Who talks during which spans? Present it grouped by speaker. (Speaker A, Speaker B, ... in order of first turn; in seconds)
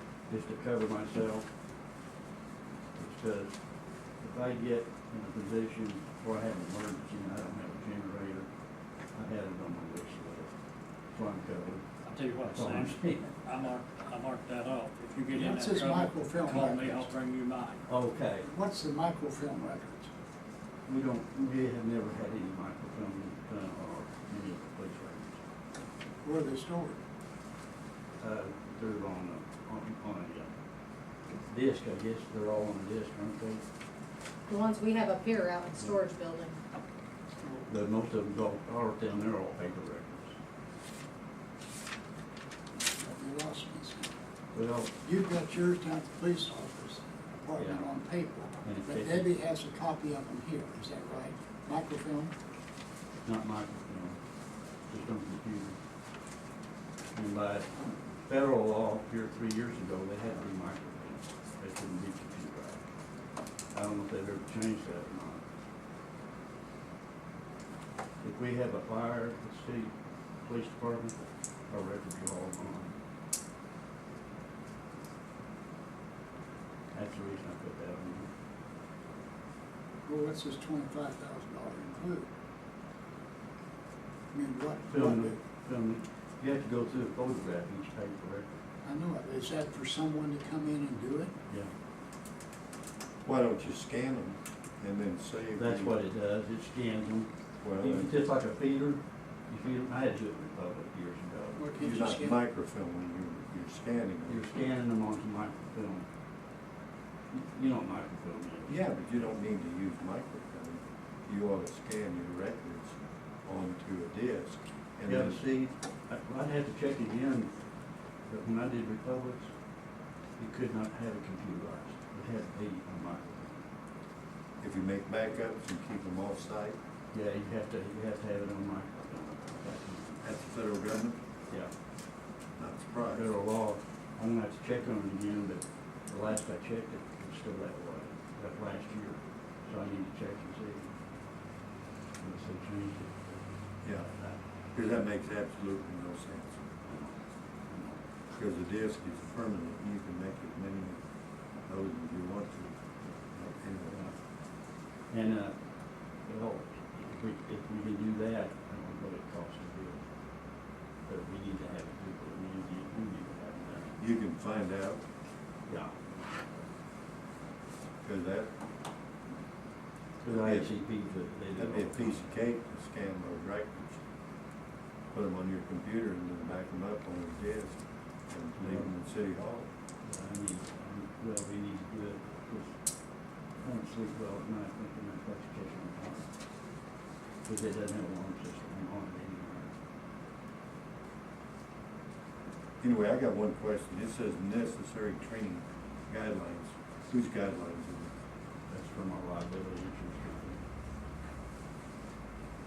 Speaker A: 0.3-1.4, 2.9-3.5, 4.2-8.5, 9.1-10.5, 11.1-11.8, 12.4-13.3, 17.9-18.5, 20.9-25.4, 28.2-30.5, 31.5-33.6, 37.7-40.3, 44.5-44.9, 47.5-47.9, 48.6-49.3, 53.2-54.1, 54.9-55.8, 57.1-62.8, 63.7-65.4, 68.2-69.9, 70.4-71.1, 71.7-72.9, 76.9-78.3, 84.9-88.4, 95.5-101.6, 104.3-106.1, 107.3-109.3, 115.1-117.5, 118.3-119.5, 120.4-123.7, 127.1-130.2, 133.1-140.9, 142.2-143.4, 144.1-144.4, 146.9-147.1, 147.7-148.0, 153.9-154.2, 155.1-155.6, 156.2-160.0, 161.1-164.0, 165.7-166.0, 170.2-172.3, 178.6-178.9, 180.0-182.7, 183.6-186.2, 187.4-189.7, 198.7-200.6
Speaker B: 12.1-17.8
Speaker C: 15.3-17.1, 18.4-20.1, 26.2-27.0, 37.4-37.7, 43.0-44.1, 45.0-52.3, 80.0-82.3, 84.3-85.3, 88.8-91.3, 101.5-102.4
Speaker D: 34.5-36.6
Speaker E: 93.2-96.0, 97.6-98.2, 101.8-104.4, 108.7-115.4, 124.6-126.8, 130.2-131.2, 132.6-133.3, 143.8-144.1, 144.7-146.6, 148.3-151.0, 151.7-154.0, 164.0-165.0, 168.0-168.5, 170.2-170.7, 171.5-174.0, 175.1-177.8, 178.3-179.7, 192.8-198.1